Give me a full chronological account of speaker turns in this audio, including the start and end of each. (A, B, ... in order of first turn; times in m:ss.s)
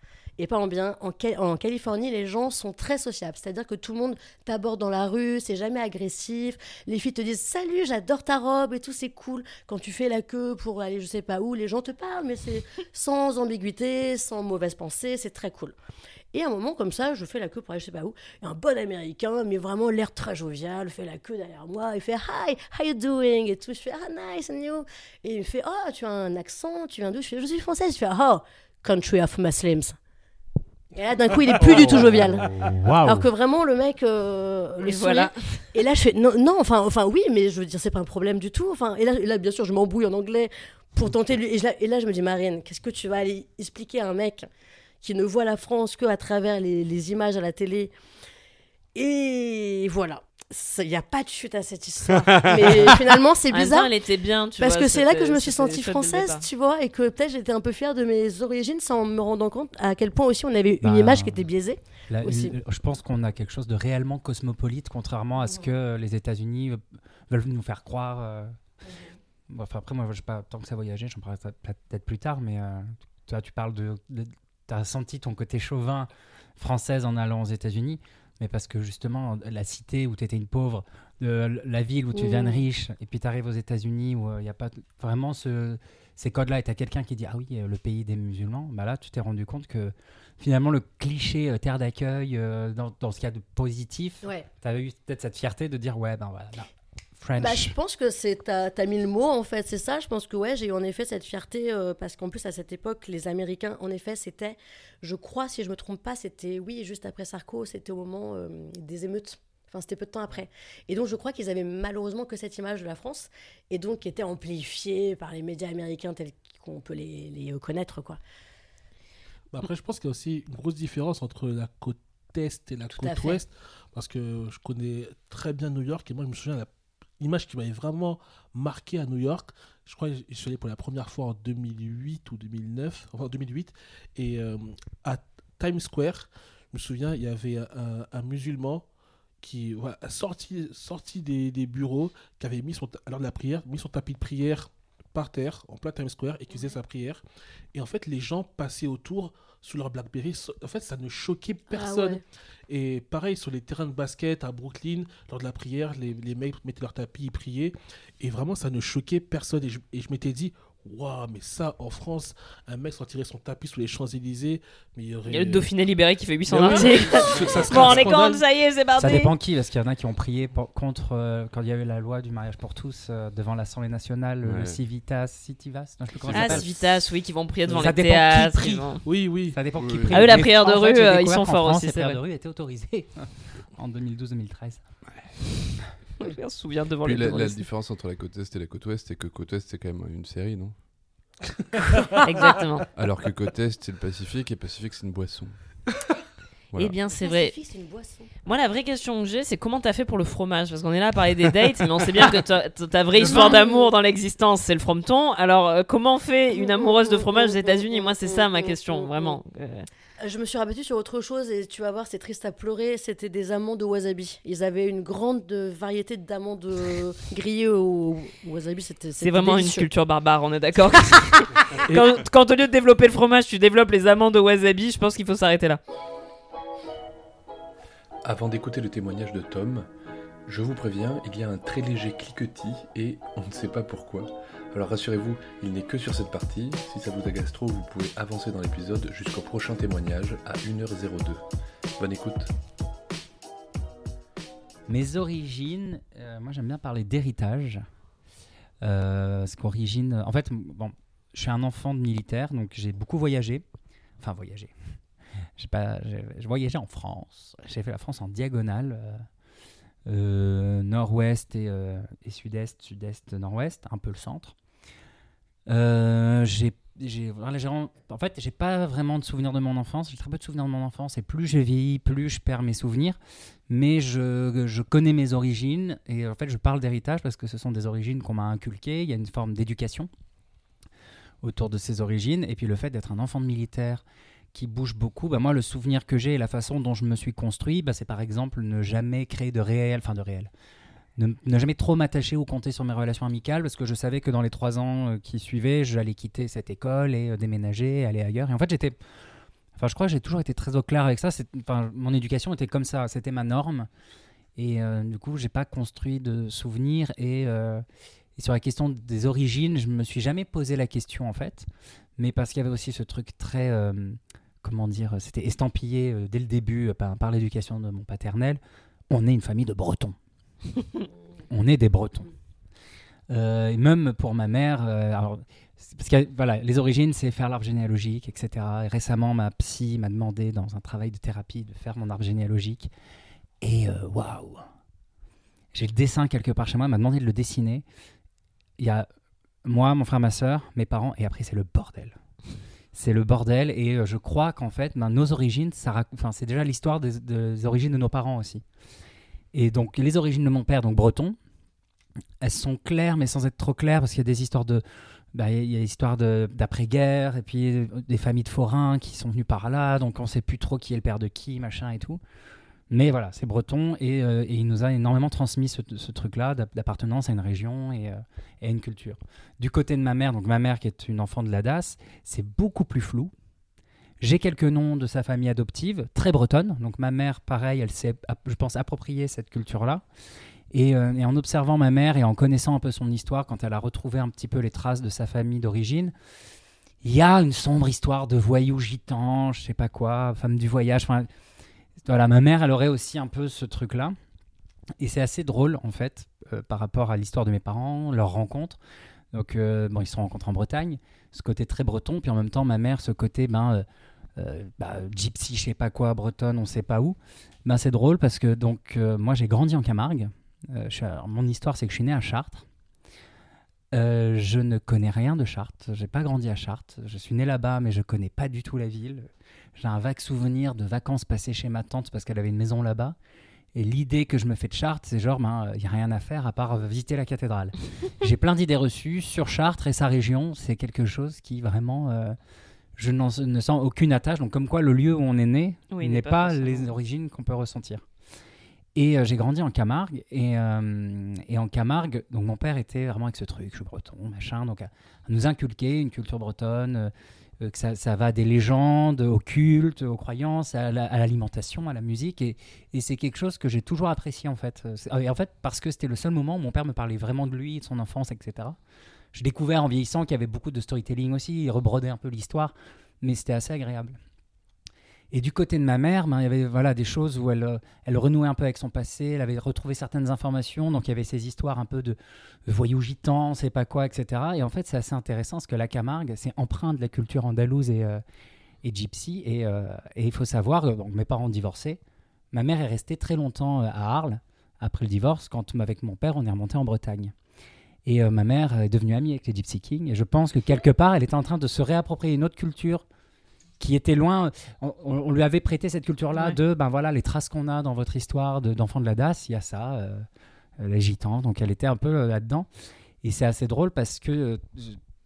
0:00.4-0:15.8 A
0:16.3-0:30.0 A
0:30.9-0:32.5 A
0:31.6-0:33.3 B
0:33.0-0:44.5 A
0:34.8-0:35.7 C
0:45.0-0:47.9 A
0:49.0-0:53.9 A
0:53.5-0:56.4 C
0:54.6-1:02.6 A
1:00.8-1:01.5 B
1:02.1-1:08.6 B
1:05.4-1:05.7 A
1:09.5-1:37.8 B
1:22.1-1:22.6 A
1:37.4-1:58.2 A
1:59.5-2:06.7 D
2:02.9-2:03.4 A
2:07.2-2:18.9 D
2:19.4-2:27.2 D
2:27.7-2:45.7 D
2:31.7-2:32.2 A
2:45.3-2:49.3 C
2:46.5-2:48.4 D
2:49.0-2:56.7 B
2:54.4-2:54.8 E
2:56.2-2:56.7 E
2:56.3-2:59.0 C
2:57.7-2:58.9 B
2:59.0-2:59.6 D
2:59.5-3:04.8 B
2:59.8-3:00.4 E
3:00.1-3:02.2 C
3:06.2-3:07.6 C
3:07.0-3:10.8 E
3:11.8-3:12.2 D
3:12.2-3:12.9 C
3:13.0-3:15.6 E
3:16.8-3:17.5 C
3:17.1-3:18.3 A
3:18.4-3:29.9 C
3:23.2-3:23.9 A
3:26.6-3:29.4 A
3:30.2-3:39.9 A
3:39.2-3:45.8 C
3:48.3-3:49.8 E
3:50.5-4:01.4 E
4:02.0-4:02.5 E
4:04.9-4:07.8 B
4:08.8-4:13.6 B
4:14.2-4:14.7 B
4:15.6-4:19.3 B
4:20.1-4:24.5 B
4:25.7-4:33.2 B
4:33.7-4:40.1 B
4:41.4-4:44.0 B
4:44.5-4:50.5 B
4:51.2-4:59.0 B
4:59.8-5:03.9 B
5:04.6-5:07.8 B
5:08.4-5:20.2 B
5:21.5-5:22.3 B
5:23.3-5:32.9 B
5:33.6-5:34.6 B
5:35.7-5:37.8 B
5:38.8-5:39.1 B
5:39.6-5:42.2 B
5:42.9-5:48.6 B
5:49.5-5:51.4 B
5:52.4-6:02.2 B
6:02.9-6:13.3 B
6:14.2-6:20.0 B
6:20.7-6:26.1 B
6:27.0-6:31.3 B
6:32.0-6:34.2 B
6:35.0-6:38.8 B
6:39.3-6:52.6 B
6:53.9-7:03.2 B
7:03.7-7:12.4 B
7:13.0-7:18.0 B
7:15.9-7:17.0 C
7:19.0-7:38.8 B
7:39.3-7:44.2 B
7:45.3-7:58.2 B
7:58.8-8:02.0 B
8:02.5-8:07.3 B
8:08.1-8:13.0 B
8:13.8-8:20.3 B
8:16.3-8:16.6 C
8:20.8-8:22.7 B
8:23.2-8:25.0 B